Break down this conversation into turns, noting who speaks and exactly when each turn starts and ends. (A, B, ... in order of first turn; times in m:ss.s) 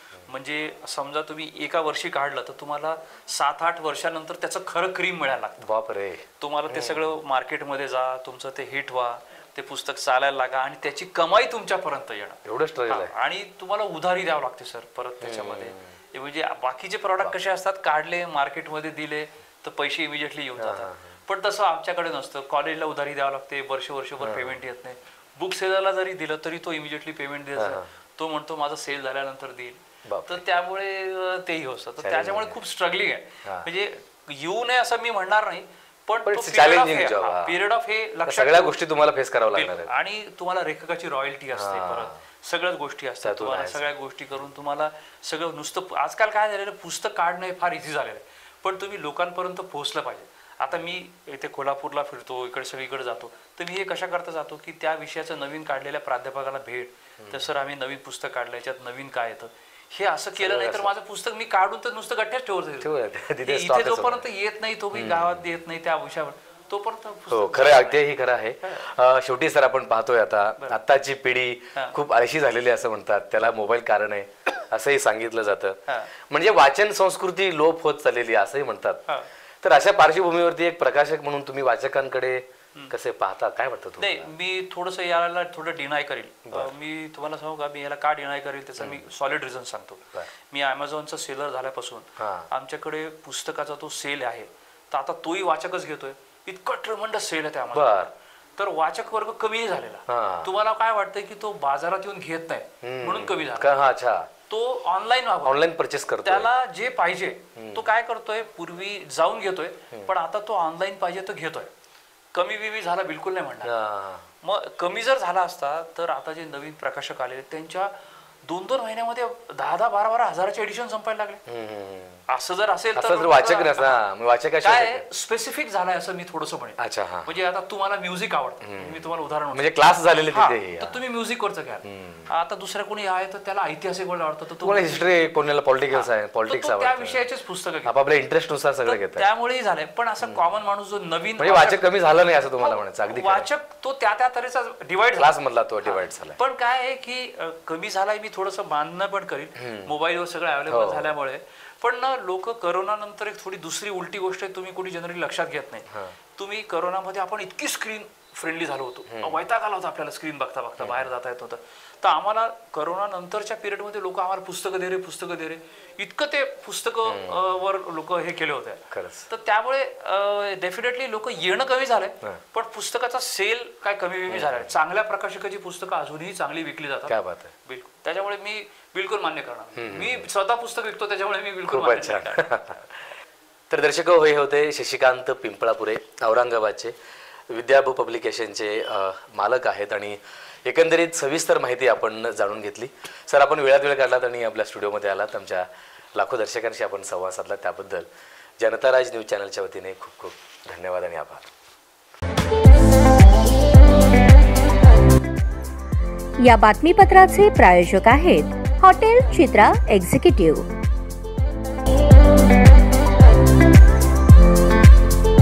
0:00.3-0:05.7 A
0:05.6-0:07.1 B
0:06.4-0:38.8 A
0:12.4-0:13.1 B
0:15.2-0:15.9 B
0:20.6-0:21.1 B
0:24.2-0:24.6 B
0:27.6-0:27.8 B
0:30.0-0:30.4 B
0:32.0-0:32.5 B
0:36.2-0:37.6 B
0:38.2-0:39.9 B
0:39.5-1:08.9 A
0:41.5-0:42.2 B
0:43.2-0:43.9 B
0:57.2-0:57.5 B
1:00.4-1:00.9 B
1:02.8-1:04.2 B
1:04.9-1:05.4 B
1:07.3-1:19.0 B
1:19.6-1:24.3 B
1:24.0-1:43.7 A
1:32.2-1:32.5 B
1:37.7-1:38.1 B
1:40.1-1:40.5 B
1:42.8-1:44.3 B
1:44.5-1:45.6 A
1:45.4-1:46.5 B
1:46.2-1:51.7 A
1:47.6-1:47.8 B
1:52.3-1:53.7 A
1:53.6-1:54.3 B
1:54.4-1:57.9 A
1:58.4-2:01.4 A
2:01.4-2:02.2 B
2:02.3-2:04.0 A
2:02.9-2:05.0 B
2:04.6-2:15.0 A
2:06.8-2:07.3 B
2:08.6-2:11.0 B
2:11.8-2:12.3 B
2:14.6-2:17.2 B
2:15.9-2:17.9 A
2:17.8-2:19.2 B
2:18.8-2:21.9 A
2:21.4-2:23.5 B
2:22.6-2:25.3 A
2:25.2-2:26.4 B
2:25.8-3:02.8 A
2:29.6-2:29.9 B
2:30.7-2:31.1 B
2:39.1-2:39.4 B
2:40.8-2:41.0 B
2:47.0-2:47.5 B
2:48.9-2:49.3 B
2:54.3-2:54.6 B
2:57.1-2:57.5 B
2:59.7-3:00.3 B
3:01.7-3:02.8 B
3:03.7-3:06.9 B
3:07.5-3:18.1 B
3:18.6-3:21.5 B
3:26.4-3:30.7 C